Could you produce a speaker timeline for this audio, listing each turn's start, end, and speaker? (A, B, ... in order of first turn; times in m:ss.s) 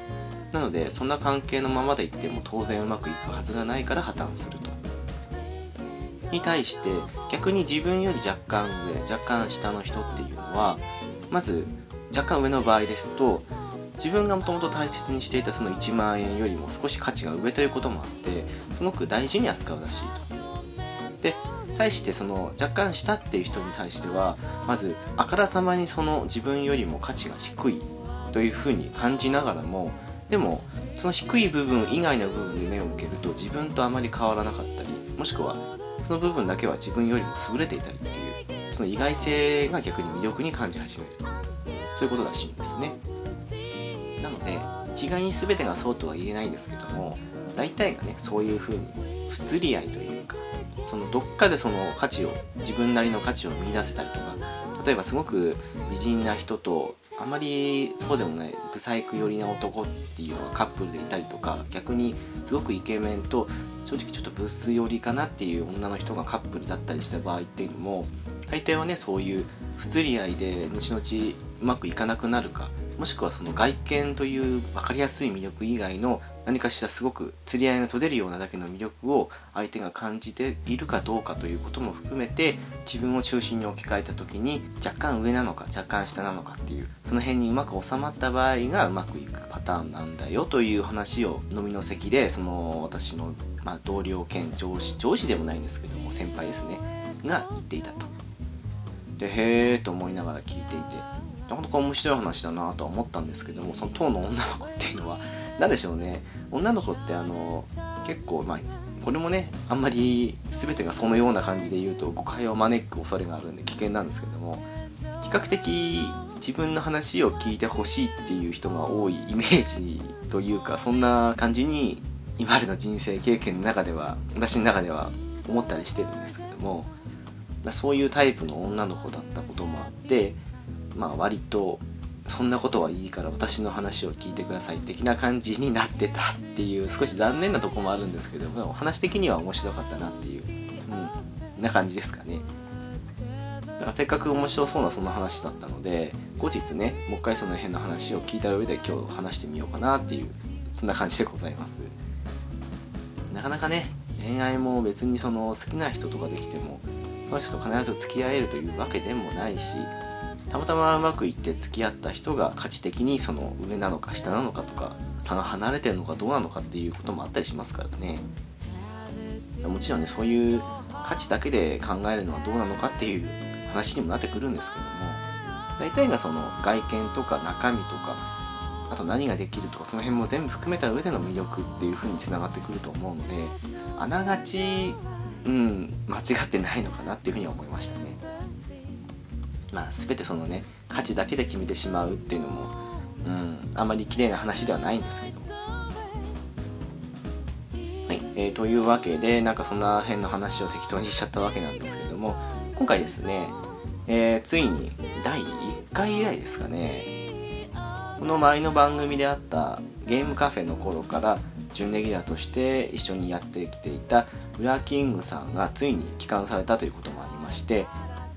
0:00.5-0:04.8 A
0:06.3-0:20.3 A
0:21.2-0:41.3 A
0:42.0-0:43.0 A
0:44.2-1:38.1 A
1:39.2-1:54.7 A
1:55.2-2:06.9 A
2:07.6-2:10.4 A
2:10.9-2:22.5 A
2:23.8-2:31.9 A
2:33.3-2:40.0 A
2:40.5-2:48.3 A
2:49.6-2:55.2 A
2:55.8-2:58.3 A
2:58.9-3:08.2 A
3:09.7-3:15.5 A
3:18.1-3:27.1 A
3:28.2-3:37.9 A